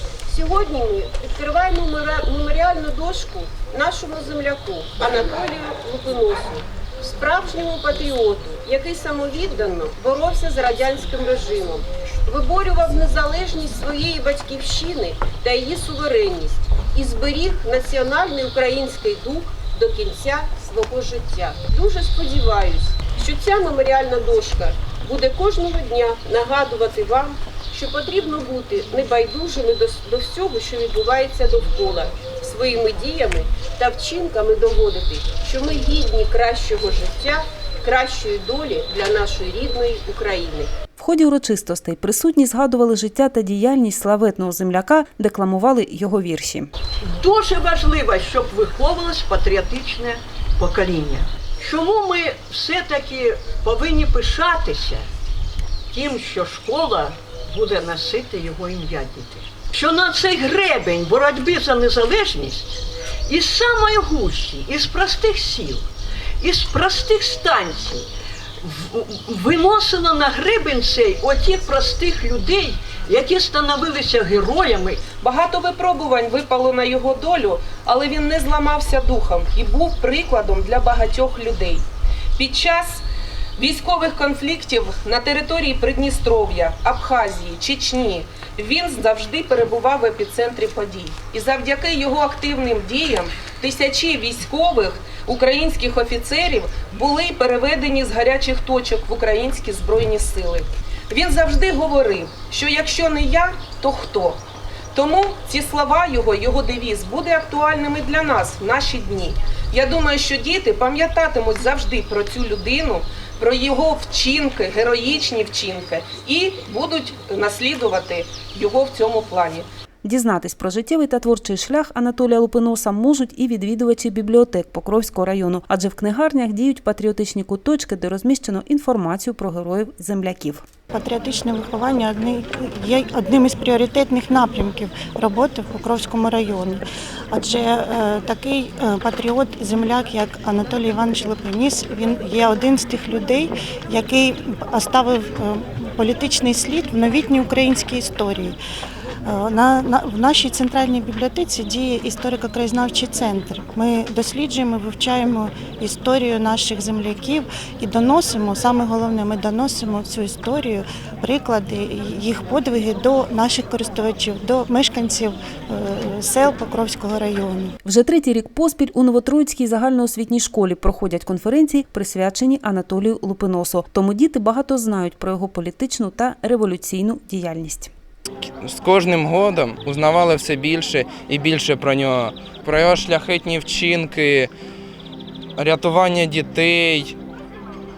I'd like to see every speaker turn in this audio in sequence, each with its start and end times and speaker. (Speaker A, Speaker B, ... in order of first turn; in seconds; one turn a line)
Speaker A: 0.3-40.7
Speaker B: 41.0-46.7
Speaker C: 47.0-55.1
Speaker C: 55.9-62.7
Speaker C: 63.3-65.8
Speaker C: 66.4-68.1
Speaker C: 68.6-75.0
Speaker D: 75.2-81.8
Speaker D: 82.4-83.0
Speaker D: 83.6-104.4
Speaker D: 104.9-119.7
Speaker B: 120.0-130.7
Speaker E: 130.9-148.6
Speaker E: 149.2-167.7
Speaker B: 167.8-177.9
Speaker F: 178.4-184.5
Speaker F: 185.6-187.2